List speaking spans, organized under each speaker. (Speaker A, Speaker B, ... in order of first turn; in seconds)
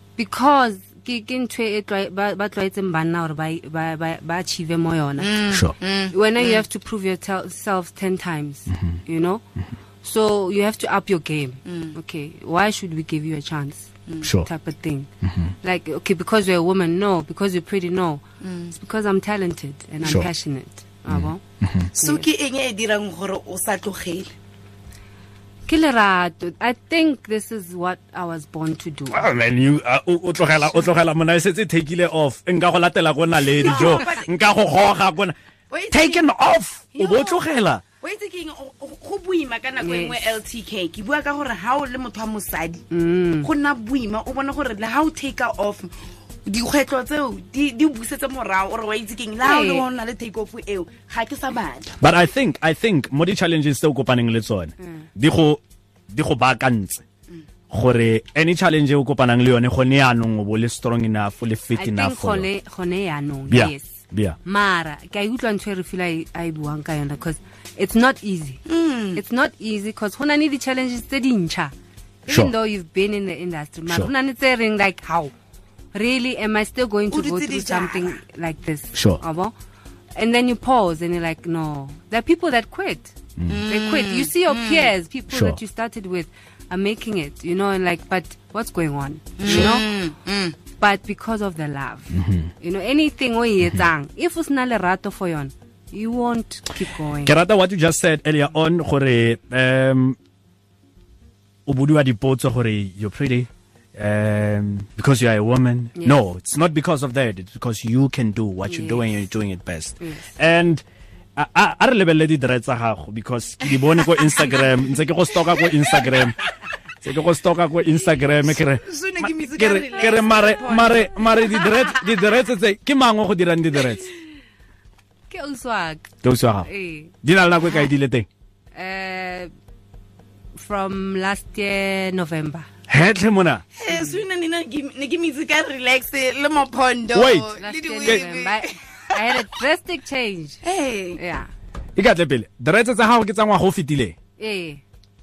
Speaker A: 0.2-9.4, 10.0-15.1, 15.6-21.4, 22.0-22.2, 25.6-29.3, 39.8-40.2, 42.9-43.5, 49.4-49.8, 54.8-55.1, 61.8-68.6, 69.1-71.7, 72.2-75.3, 75.9-79.5, 80.1-89.9, 90.7-97.3, 108.7-109.1, 125.3-126.1, 126.6-127.1, 128.7-129.5, 130.5-132.7, 133.9-134.2, 137.6-140.6, 141.2-141.5, 144.4-144.8
Speaker B: 5.2-6.6, 11.6-12.0, 14.1-14.3, 18.4-18.7, 21.9-24.3, 33.6-34.3, 35.7-36.3, 36.9-37.4, 38.0-42.8, 43.4-51.9, 68.7-69.2, 77.1-78.2, 83.5-84.9, 89.4-90.5, 114.1-114.7, 115.7-116.1, 118.5-122.0, 133.8-139.4, 140.6-141.2
Speaker C: 8.7-9.0, 14.2-14.5, 15.2-15.5, 21.1-21.9, 29.1-35.3, 35.9-37.8, 52.0-57.0, 57.7-62.5, 63.5-64.3, 78.9-79.2, 83.4-83.6, 85.3-85.6, 92.1-92.5, 97.2-100.2, 101.7-110.8, 111.3-116.4, 117.0-124.1, 126.2-126.7, 127.2-128.3, 132.9-133.7, 137.1-138.2, 141.9-144.2